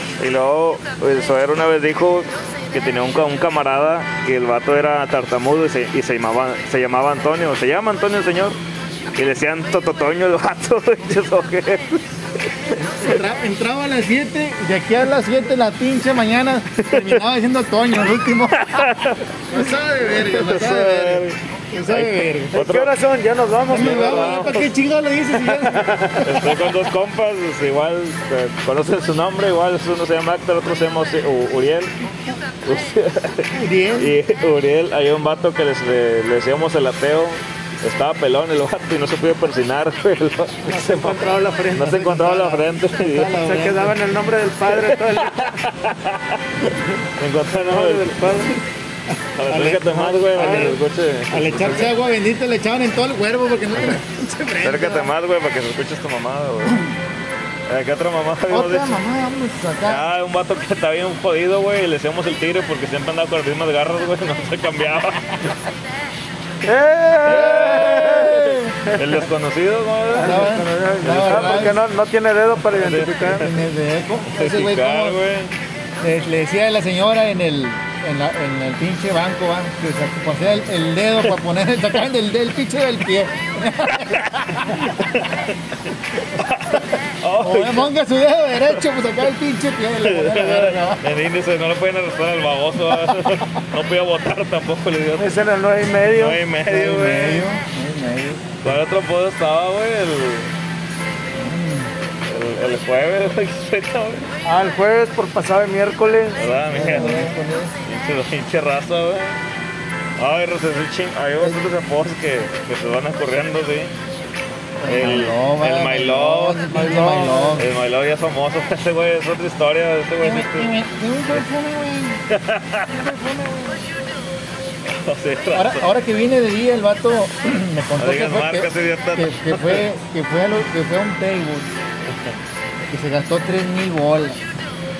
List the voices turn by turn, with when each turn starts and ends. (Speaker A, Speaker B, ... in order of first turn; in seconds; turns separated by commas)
Speaker A: 0.2-8.6, Speaker A: 9.2-13.1, Speaker B: 12.9-22.6, Speaker A: 16.9-17.1, Speaker A: 18.6-19.3, Speaker A: 20.2-22.9, Speaker C: 22.5-24.6, Speaker B: 23.7-26.5, Speaker A: 23.7-24.7, Speaker C: 25.4-26.3, Speaker A: 26.2-31.9, Speaker A: 32.7-41.2, Speaker B: 33.6-34.1, Speaker C: 40.7-41.9, Speaker A: 41.7-43.4, Speaker B: 41.8-44.1, Speaker C: 43.4-45.6, Speaker A: 44.7-48.5, Speaker C: 47.5-48.6, Speaker A: 49.4-51.9, Speaker B: 49.5-50.8, Speaker C: 50.3-50.8, Speaker B: 51.3-55.1, Speaker A: 54.6-56.9, Speaker A: 57.7-59.0, Speaker B: 58.5-60.0, Speaker A: 59.9-65.6, Speaker C: 66.6-69.2, Speaker A: 67.2-71.8, Speaker B: 68.1-68.8, Speaker C: 70.2-73.5, Speaker B: 70.2-71.8, Speaker A: 72.7-73.5, Speaker B: 73.4-75.2, Speaker A: 74.3-75.5, Speaker B: 76.0-85.3, Speaker A: 84.7-85.4, Speaker A: 86.3-87.9, Speaker B: 87.4-91.1, Speaker A: 90.0-95.4, Speaker B: 92.9-93.2, Speaker C: 95.2-96.5, Speaker A: 96.0-97.4, Speaker B: 96.7-98.6, Speaker C: 97.1-97.4, Speaker A: 98.6-100.5, Speaker B: 101.4-101.9, Speaker A: 102.3-104.3, Speaker C: 104.4-106.4, Speaker A: 106.3-109.4, Speaker B: 106.7-107.8, Speaker A: 110.2-113.9, Speaker B: 114.8-117.7, Speaker A: 114.8-116.7, Speaker C: 116.7-117.7, Speaker A: 117.5-120.8, Speaker B: 120.2-122.3, Speaker A: 122.3-123.1, Speaker B: 122.9-123.8, Speaker A: 124.9-125.9, Speaker B: 125.5-131.8, Speaker A: 128.0-129.8, Speaker B: 132.9-134.4